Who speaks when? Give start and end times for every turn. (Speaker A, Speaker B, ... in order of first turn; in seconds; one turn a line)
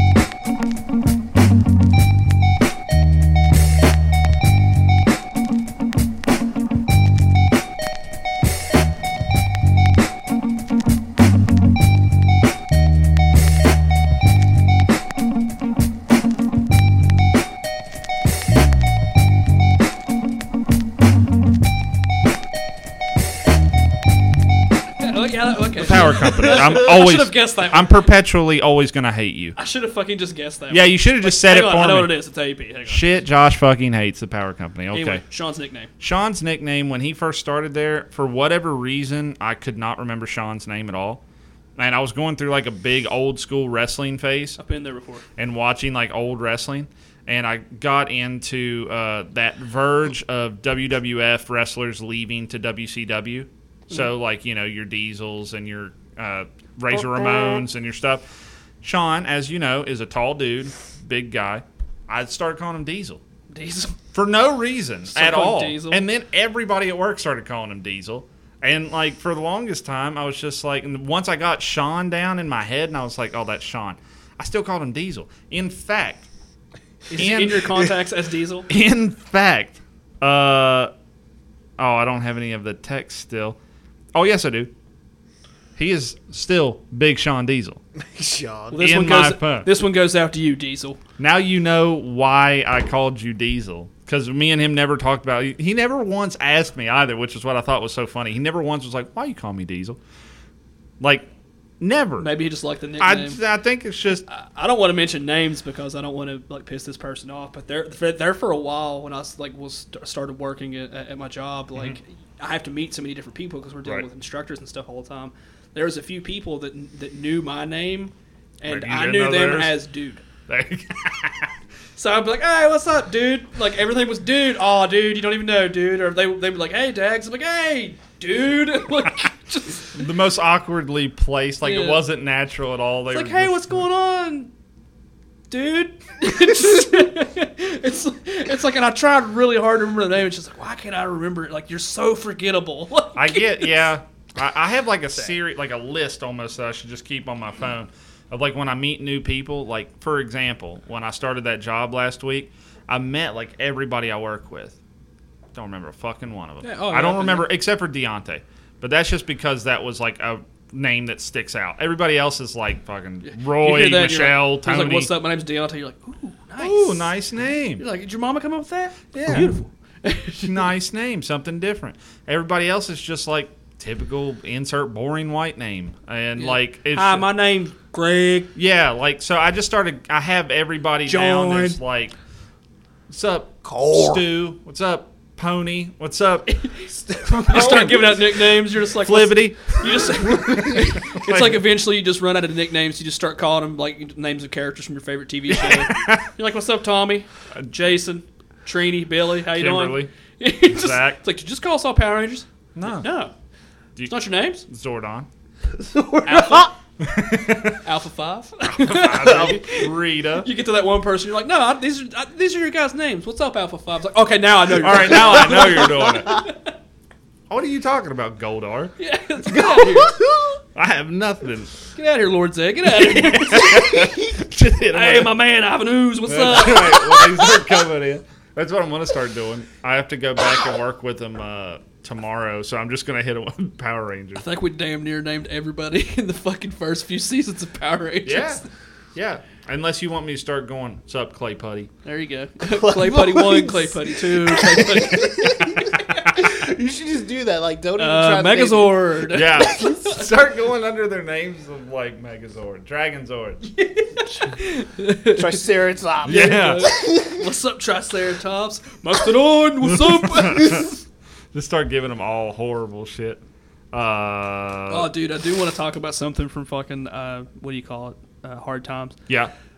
Speaker A: 25.0-27.9
Speaker B: 25.8-29.6
Speaker A: 29.6-33.1
Speaker B: 30.7-32.1
Speaker B: 32.9-35.2
Speaker A: 34.9-35.9
Speaker B: 36.0-41.2
Speaker B: 41.8-44.6
Speaker A: 44.6-45.3
Speaker B: 45.4-58.2
Speaker C: 57.1-57.6
Speaker B: 58.8-63.2
Speaker A: 63.5-64.0
Speaker B: 64.1-76.3
Speaker A: 65.1-66.0
Speaker A: 77.1-78.7
Speaker B: 77.1-77.9
Speaker B: 78.7-80.9
Speaker B: 81.8-83.6
Speaker B: 84.1-84.7
Speaker B: 85.8-87.8
Speaker C: 88.1-88.8
Speaker A: 88.7-91.0
Speaker B: 88.8-89.7
Speaker B: 91.2-100.0
Speaker B: 101.0-101.3
Speaker B: 101.8-102.3
Speaker A: 102.2-103.4
Speaker B: 103.0-104.2
Speaker A: 104.3-120.2
Speaker B: 118.7-119.8
Speaker B: 120.5-121.5
Speaker A: 122.0-130.0
Speaker B: 129.9-133.8
Speaker A: 131.6-132.0
Speaker A: 133.1-134.5
Speaker A: 135.5-143.9
Speaker B: 143.2-154.8
Speaker B: 155.5-165.1
Speaker A: 156.6-157.5
Speaker A: 163.2-167.1
Speaker B: 166.6-167.8
Speaker A: 167.8-170.7
Speaker B: 169.1-169.5
Speaker B: 170.4-177.3
Speaker A: 176.4-178.5
Speaker B: 178.6-182.2
Speaker A: 181.1-181.8
Speaker B: 183.1-186.6
Speaker C: 183.6-184.3
Speaker A: 186.5-203.3
Speaker B: 187.2-191.7
Speaker C: 187.6-187.8
Speaker B: 195.5-196.3
Speaker B: 199.5-200.1
Speaker B: 200.7-201.2
Speaker B: 202.8-203.1
Speaker B: 204.0-205.3
Speaker A: 204.1-204.6
Speaker C: 205.8-206.7
Speaker A: 206.2-206.7
Speaker B: 207.0-207.8
Speaker A: 207.8-216.7
Speaker B: 208.6-210.5
Speaker B: 214.7-216.4
Speaker B: 217.5-218.9
Speaker A: 219.0-220.2
Speaker C: 219.6-220.5
Speaker B: 220.8-221.8
Speaker A: 221.9-227.8
Speaker B: 223.0-225.4
Speaker B: 226.3-234.4
Speaker A: 234.4-238.7
Speaker B: 238.2-238.6
Speaker B: 239.2-241.9
Speaker A: 242.1-245.8
Speaker C: 242.6-249.9
Speaker B: 245.6-246.5
Speaker A: 248.0-250.2
Speaker B: 249.3-253.7
Speaker A: 253.7-255.6
Speaker C: 255.3-257.4
Speaker B: 256.2-256.9
Speaker A: 256.2-261.0
Speaker B: 259.9-260.9
Speaker B: 261.5-265.1
Speaker A: 264.9-269.2